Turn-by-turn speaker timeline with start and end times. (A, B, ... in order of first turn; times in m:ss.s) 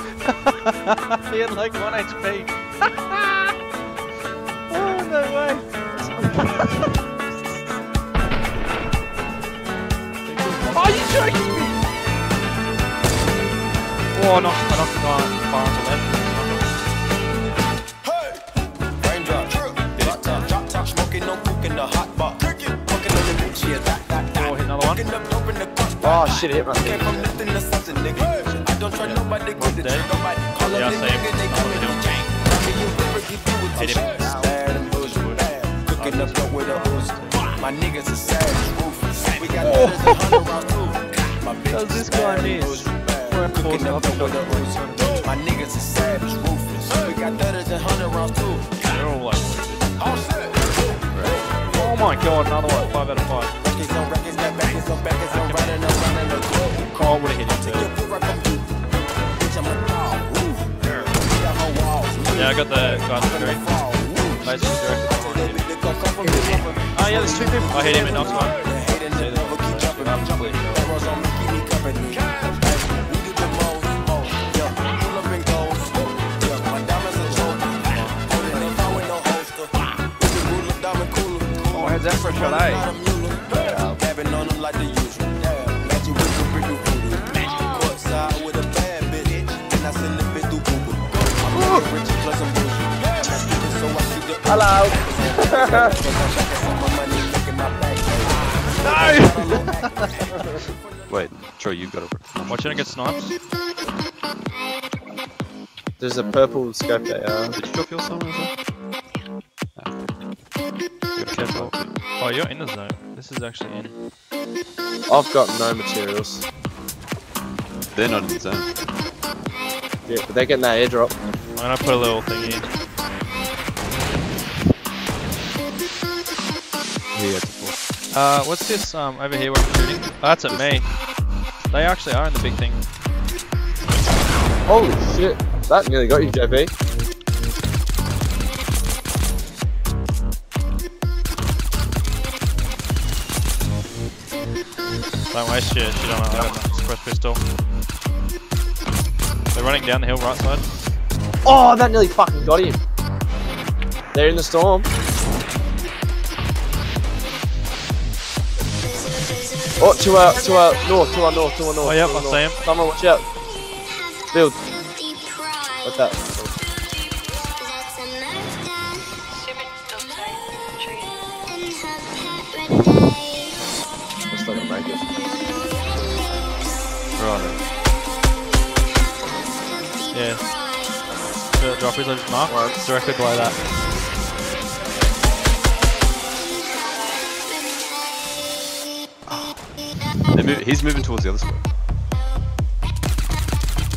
0:00.2-0:03.5 A
0:04.7-0:05.7 A
0:05.9-0:06.7 B
0:06.4-0:06.7 A
0:10.3-0:11.1 B
0:10.3-0:11.7 A
0:14.1-0:16.7 A
0:18.0-0:18.4 C
0:19.0-0:48.9 C
0:24.3-0:25.0 A
0:26.0-0:27.4 B
0:29.0-0:30.1 A
0:30.6-0:32.3 A
0:33.7-0:37.7 A
0:34.2-0:34.5 B
0:39.6-0:40.2 A
0:41.7-0:45.4 A
0:48.8-0:49.9 A
0:50.0-0:52.0 C
0:51.1-0:51.4 D
0:51.7-0:53.5 A
0:53.6-0:58.7 C
0:55.2-0:55.9 A
0:56.9-0:57.9 A
0:59.4-1:40.8 C
1:02.3-1:03.6 A
1:04.4-1:06.0 A
1:06.2-1:06.6 B
1:06.9-1:11.0 A
1:08.0-1:08.5 B
1:17.2-1:18.3 A
1:21.7-1:22.9 A
1:23.5-1:24.0 B
1:27.4-1:28.0 E
1:31.6-1:31.8 A
1:34.4-1:36.0 B
1:38.8-1:40.0 A
1:41.1-1:42.9 D
1:42.5-1:43.3 A
1:46.0-1:47.5 B
1:47.5-1:48.5 D
1:49.8-1:50.1 D
1:51.2-1:51.9 D
1:51.3-1:53.9 A
1:55.1-1:56.4 B
1:57.9-1:58.7 D
2:00.0-2:01.1 B
2:01.6-2:02.7 A
2:07.1-2:07.8 D
2:08.1-2:10.9 A
2:10.5-2:10.8 D
2:11.6-2:12.8 A
2:14.6-2:16.7 B
2:25.3-2:27.4 A
2:29.5-2:30.6 A
2:31.4-2:32.8 B
2:34.1-2:34.9 B
2:39.8-2:43.2 B
2:40.3-2:40.9 E
2:41.8-2:42.6 A
2:44.3-2:44.6 B
2:45.8-2:46.5 B
2:47.1-2:47.5 E
2:49.3-2:51.3 E
2:54.3-2:55.3 B
2:57.1-2:57.6 D
3:00.1-3:00.5 A
3:01.5-3:03.6 A
3:02.5-3:02.8 B
3:05.4-3:07.4 E
3:10.3-3:11.7 D